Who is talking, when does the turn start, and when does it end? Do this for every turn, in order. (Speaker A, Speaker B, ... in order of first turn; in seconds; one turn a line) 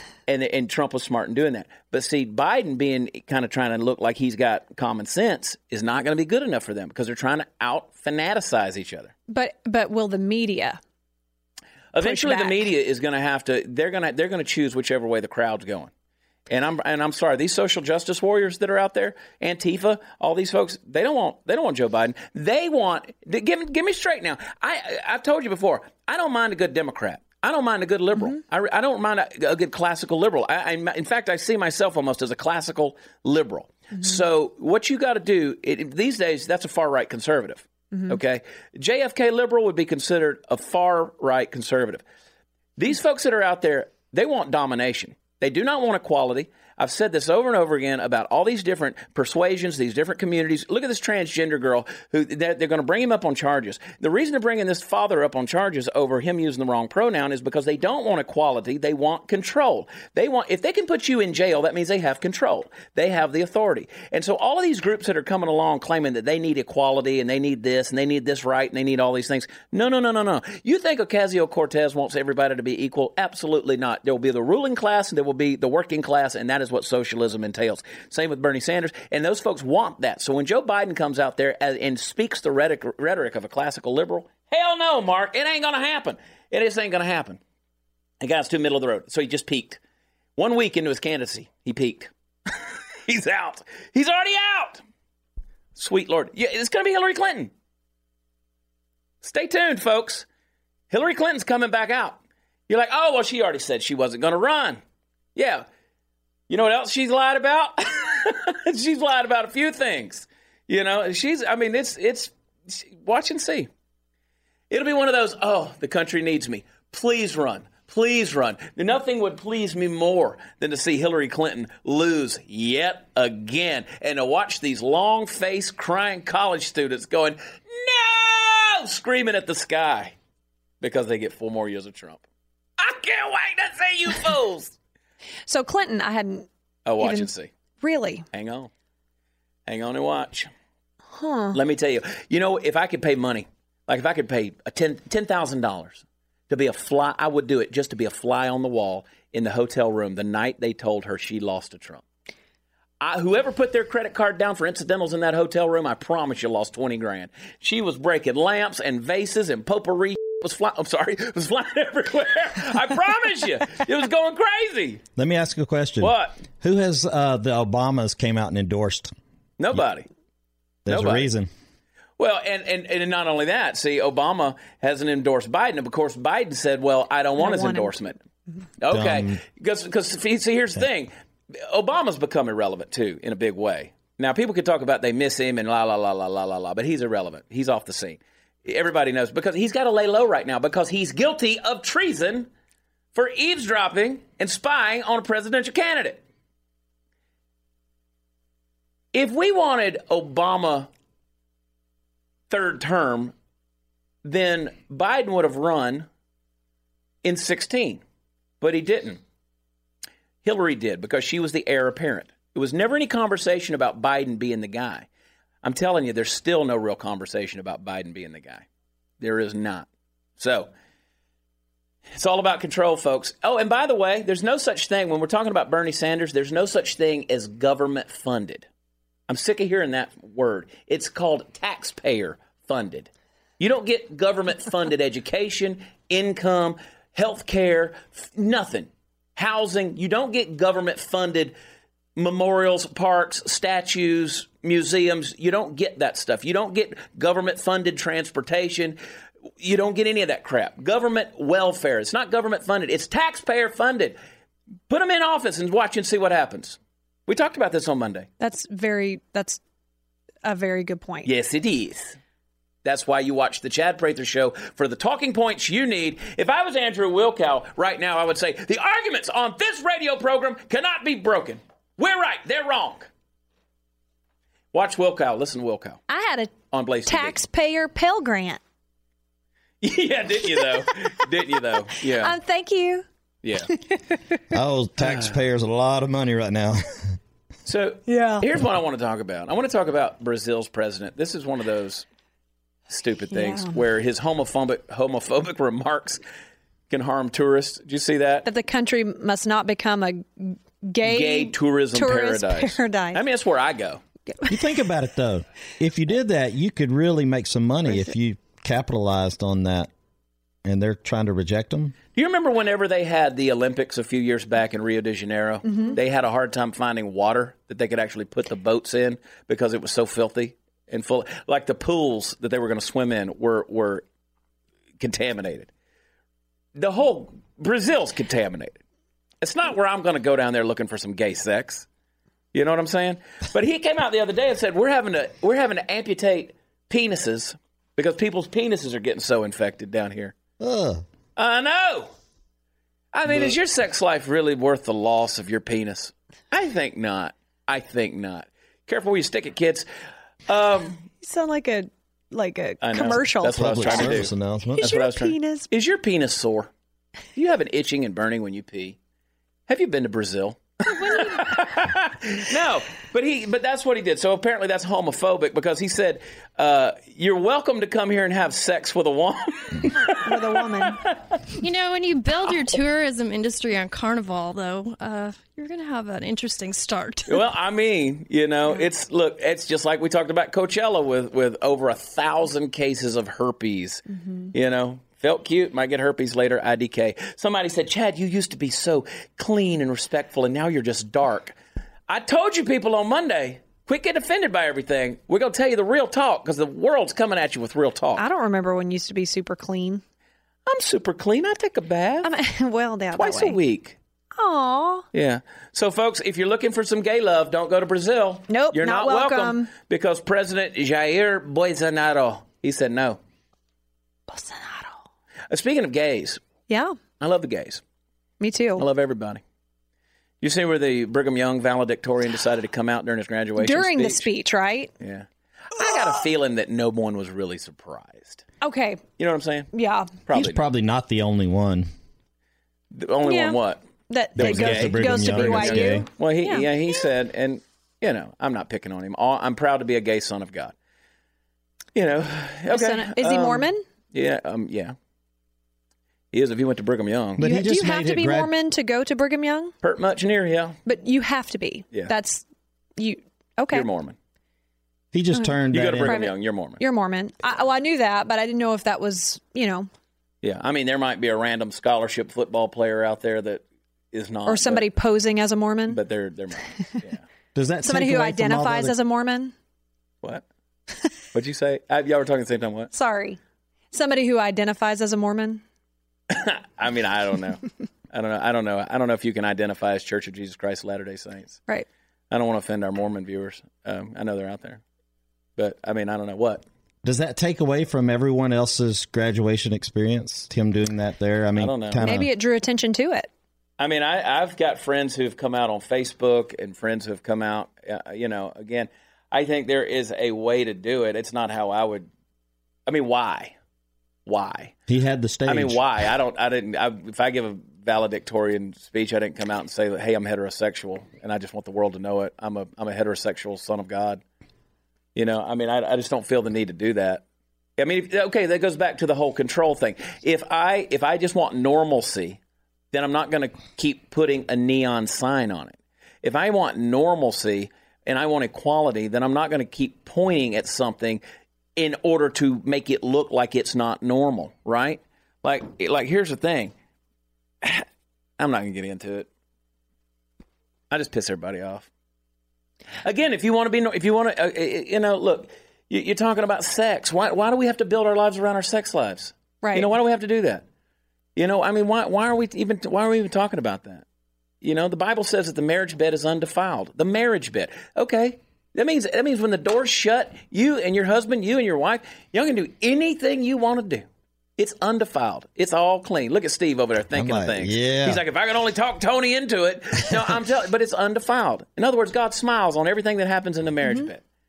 Speaker A: 0.3-9.1
Speaker B: 9.3-10.8
Speaker A: 11.9-15.9
Speaker B: 12.0-12.6
Speaker A: 16.5-42.0
Speaker A: 42.8-87.4
Speaker A: 88.2-89.8
Speaker A: 90.4-94.8
Speaker A: 95.8-97.5
Speaker A: 99.2-100.2
Speaker A: 100.9-102.2
Speaker A: 102.7-104.8
Speaker A: 105.3-105.6
Speaker A: 106.5-113.7
Speaker A: 114.7-130.1
Speaker A: 130.8-132.2
Speaker A: 132.8-134.8
Speaker B: 135.5-136.5
Speaker A: 136.8-137.5
Speaker B: 137.0-137.3
Speaker B: 137.8-138.2
Speaker A: 138.3-138.7
Speaker A: 139.7-140.5
Speaker B: 141.1-141.6
Speaker A: 141.5-152.0
Speaker A: 153.0-165.0
Speaker C: 165.2-169.1
Speaker A: 166.0-166.4
Speaker A: 169.6-170.1
Speaker C: 170.8-171.5
Speaker A: 170.9-171.3
Speaker A: 172.2-178.2
Speaker B: 177.4-177.9
Speaker A: 178.8-192.5
Speaker C: 178.9-179.4
Speaker A: 193.1-196.2
Speaker A: 199.1-200.9
Speaker A: 202.5-203.3
Speaker A: 204.2-206.1
Speaker A: 207.2-208.0
Speaker A: 208.6-209.2
Speaker A: 210.4-215.1
Speaker A: 215.6-218.6
Speaker A: 219.2-219.9
Speaker A: 220.4-220.7
Speaker A: 222.1-228.7
Speaker A: 229.3-241.5
Speaker A: 242.2-249.0
Speaker A: 249.6-254.2
Speaker A: 254.9-258.3
Speaker B: 258.4-259.6
Speaker B: 260.4-261.3
Speaker A: 261.2-262.2
Speaker A: 262.8-273.1
Speaker A: 274.7-276.0
Speaker B: 276.1-276.5
Speaker A: 276.7-277.4
Speaker B: 277.1-278.6
Speaker A: 279.8-282.4
Speaker B: 280.5-280.9
Speaker B: 281.9-283.1
Speaker A: 283.4-283.7
Speaker C: 284.5-287.2
Speaker A: 285.0-285.3
Speaker A: 287.6-292.1
Speaker B: 288.1-288.4
Speaker A: 292.9-296.2
Speaker B: 293.3-293.8
Speaker A: 296.9-298.4
Speaker B: 298.4-303.2
Speaker A: 301.0-304.0
Speaker C: 304.5-309.9
Speaker C: 310.6-311.9
Speaker A: 312.1-324.0
Speaker B: 315.7-315.9
Speaker A: 325.0-325.7
Speaker A: 326.7-328.8
Speaker A: 329.4-331.9
Speaker A: 332.5-340.4
Speaker C: 340.6-341.0
Speaker A: 341.4-342.1
Speaker A: 343.1-349.9
Speaker A: 350.5-351.1
Speaker B: 351.2-355.7
Speaker A: 352.8-354.3
Speaker C: 353.5-354.9
Speaker A: 354.8-356.7
Speaker A: 357.3-359.0
Speaker A: 359.7-371.1
Speaker B: 360.9-361.5
Speaker B: 370.2-371.0
Speaker D: 371.6-377.4
Speaker A: 377.3-391.6
Speaker A: 392.1-398.2
Speaker B: 398.2-400.0
Speaker A: 400.7-402.3
Speaker B: 402.2-403.6
Speaker A: 403.1-404.0
Speaker B: 404.3-405.1
Speaker A: 405.1-413.2
Speaker B: 408.5-409.7
Speaker B: 414.3-415.0
Speaker A: 415.5-416.4
Speaker B: 416.7-417.0
Speaker A: 417.2-417.8
Speaker B: 418.4-418.8
Speaker A: 418.8-419.4
Speaker A: 420.4-424.3
Speaker B: 423.6-424.9
Speaker A: 425.0-428.4
Speaker B: 428.6-429.0
Speaker A: 429.2-429.7
Speaker B: 429.7-430.1
Speaker A: 430.3-430.6
Speaker C: 430.3-431.9
Speaker A: 432.9-433.8
Speaker B: 433.2-433.6
Speaker B: 434.1-436.9
Speaker C: 434.4-436.0
Speaker A: 434.4-440.7
Speaker A: 441.9-444.9
Speaker B: 442.7-443.8
Speaker A: 446.3-447.4
Speaker C: 447.4-448.5
Speaker B: 447.4-449.7
Speaker A: 449.8-450.8
Speaker B: 450.9-452.4
Speaker B: 453.0-453.8
Speaker A: 453.7-454.1
Speaker C: 455.1-456.1
Speaker B: 455.3-459.9
Speaker A: 455.7-456.8
Speaker A: 460.4-464.9
Speaker B: 464.5-466.0
Speaker A: 465.9-467.2
Speaker C: 467.5-468.9
Speaker B: 467.8-469.5
Speaker A: 471.3-472.9
Speaker B: 472.9-473.4
Speaker B: 473.9-475.6
Speaker A: 476.3-481.6
Speaker A: 482.3-484.8
Speaker A: 485.6-486.6
Speaker C: 487.0-492.3
Speaker A: 491.6-492.0
Speaker B: 492.0-493.3
Speaker A: 493.8-502.1
Speaker A: 502.9-503.5
Speaker A: 504.2-504.7
Speaker C: 504.9-505.8
Speaker A: 505.5-514.2
Speaker A: 515.1-517.2
Speaker A: 517.8-522.4
Speaker A: 522.9-531.2
Speaker A: 531.8-536.7
Speaker A: 538.4-539.3
Speaker A: 540.9-541.9
Speaker A: 543.0-550.6
Speaker B: 549.6-549.9
Speaker A: 551.4-554.0
Speaker A: 554.6-564.0
Speaker A: 564.6-574.2
Speaker C: 567.1-568.2